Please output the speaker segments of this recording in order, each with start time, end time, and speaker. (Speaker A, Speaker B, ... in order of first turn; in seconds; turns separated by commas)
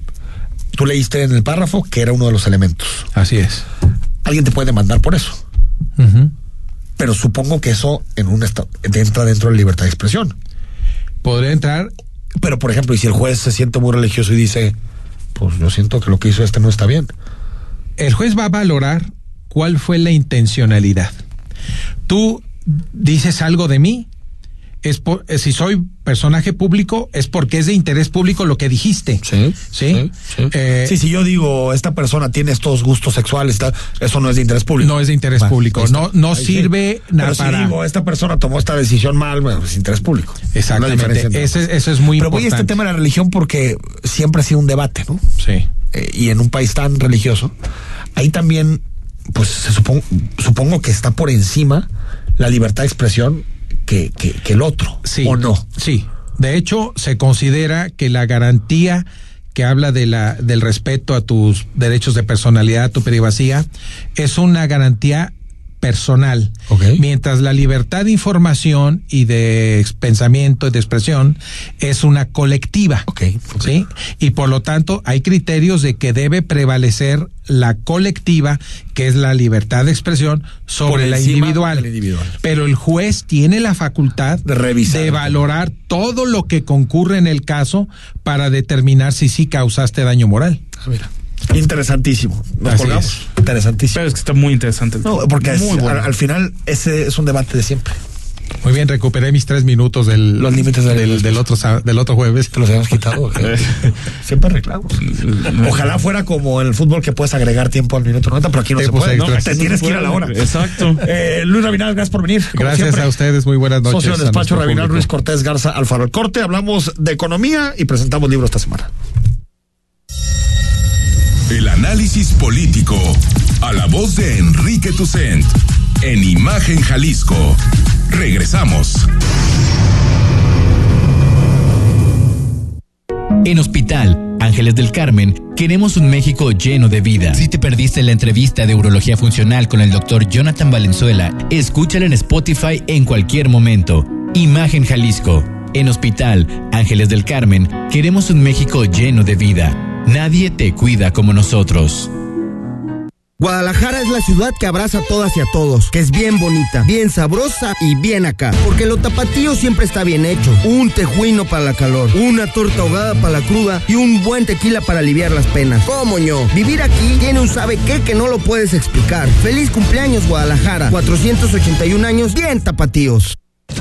Speaker A: 0.7-3.1, Speaker B: 3.1-3.6, Speaker A: 4.2-5.4, Speaker B: 6.0-6.3, Speaker A: 7.0-10.4, Speaker B: 11.2-11.9, Speaker A: 12.4-14.8, Speaker A: 15.3-17.1, Speaker B: 18.0-21.1, Speaker B: 22.1-24.1, Speaker B: 24.8-31.0, Speaker A: 29.2-45.3, Speaker B: 34.8-37.8, Speaker B: 40.5-42.8, Speaker B: 45.4-45.7, Speaker A: 45.9-47.5, Speaker A: 48.1-55.7, Speaker B: 55.0-73.1, Speaker A: 66.7-67.0, Speaker A: 73.1-73.7, Speaker B: 73.6-81.9, Speaker A: 80.8-82.4, Speaker B: 82.4-90.6, Speaker A: 84.5-85.4, Speaker A: 90.8-94.0, Speaker B: 92.7-93.2, Speaker C: 93.9-96.1, Speaker A: 95.0-98.0, Speaker B: 98.6-102.5, Speaker A: 100.4-101.5, Speaker A: 102.5-110.5, Speaker C: 103.4-103.9, Speaker C: 105.1-105.8, Speaker B: 108.8-109.8, Speaker C: 109.1-111.0, Speaker A: 111.0-113.1, Speaker B: 112.5-115.1, Speaker A: 113.8-118.9, Speaker D: 121.5-129.1, Speaker E: 133.4-152.1, Speaker F: 153.4-173.4